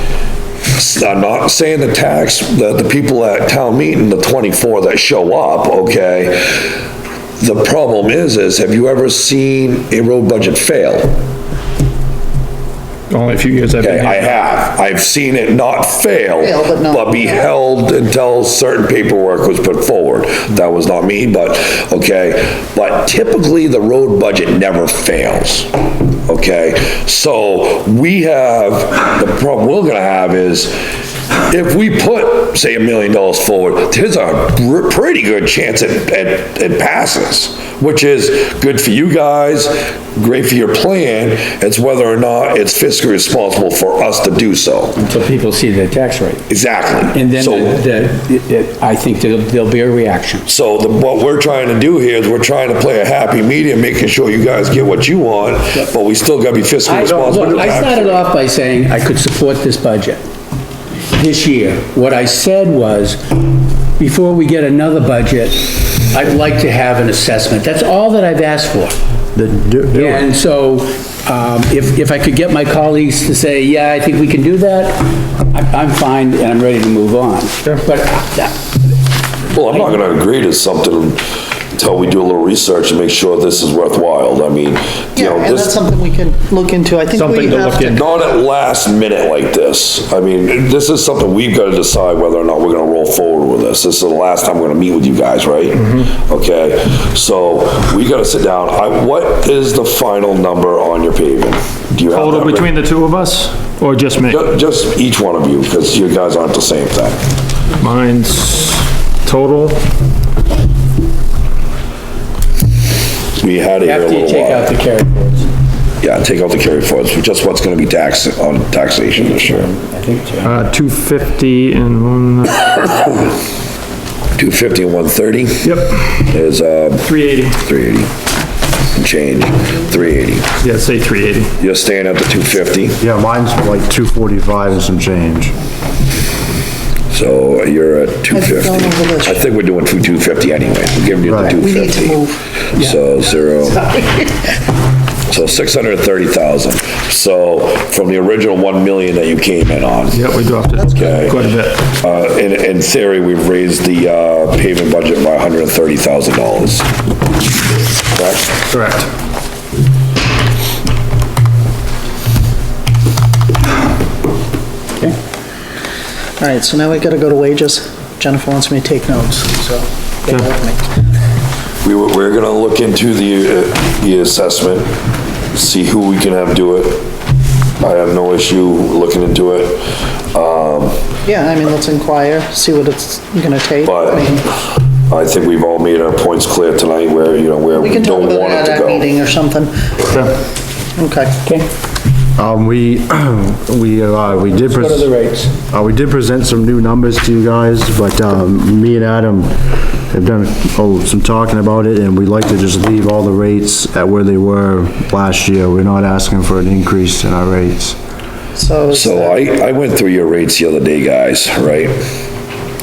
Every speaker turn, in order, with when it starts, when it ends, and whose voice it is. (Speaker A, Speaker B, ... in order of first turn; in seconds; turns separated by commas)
Speaker A: 0.7-6.7, Speaker A: 7.4-11.1, Speaker B: 13.1-14.4, Speaker A: 13.8-25.7, Speaker C: 16.4-17.4, Speaker A: 26.2-30.8, Speaker A: 31.5-45.0, Speaker D: 45.0-46.4, Speaker A: 46.5-47.8, Speaker D: 47.1-50.5, Speaker A: 50.5-58.2, Speaker D: 56.8-60.2, Speaker D: 61.1-63.4, Speaker D: 64.0-69.0, Speaker E: 69.3-70.2, Speaker D: 69.9-78.5, Speaker A: 79.5-81.2, Speaker A: 81.7-85.8, Speaker C: 85.2-88.0, Speaker B: 87.1-88.0, Speaker A: 87.8-102.7, Speaker B: 102.1-104.4, Speaker A: 104.3-107.2, Speaker B: 107.8-109.8, Speaker A: 113.4-114.7, Speaker D: 113.8-115.5, Speaker A: 116.0-119.7, Speaker D: 119.1-120.7, Speaker B: 120.4-123.0, Speaker A: 124.3-128.1, Speaker B: 125.6-126.4, Speaker B: 127.0-127.5, Speaker A: 128.9-130.5, Speaker B: 130.6-131.5, Speaker A: 131.6-133.0, Speaker E: 133.0-135.5, Speaker A: 137.1-143.9, Speaker C: 138.3-139.4, Speaker E: 141.2-141.6, Speaker C: 141.4-142.4, Speaker C: 143.7-144.4, Speaker A: 145.3-150.2, Speaker B: 150.1-151.9, Speaker A: 150.9-156.9, Speaker A: 158.1-158.6, Speaker B: 158.7-159.1, Speaker C: 166.4-170.9, Speaker A: 171.8-174.9, Speaker A: 175.5-177.1, Speaker A: 177.8-181.0, Speaker C: 181.2-184.4, Speaker A: 183.8-189.1, Speaker C: 187.7-189.8, Speaker B: 190.0-190.4, Speaker C: 191.0-191.3, Speaker E: 192.4-195.1, Speaker D: 194.6-195.5, Speaker E: 195.7-199.5, Speaker E: 200.1-208.0, Speaker C: 208.5-209.4, Speaker A: 208.9-212.0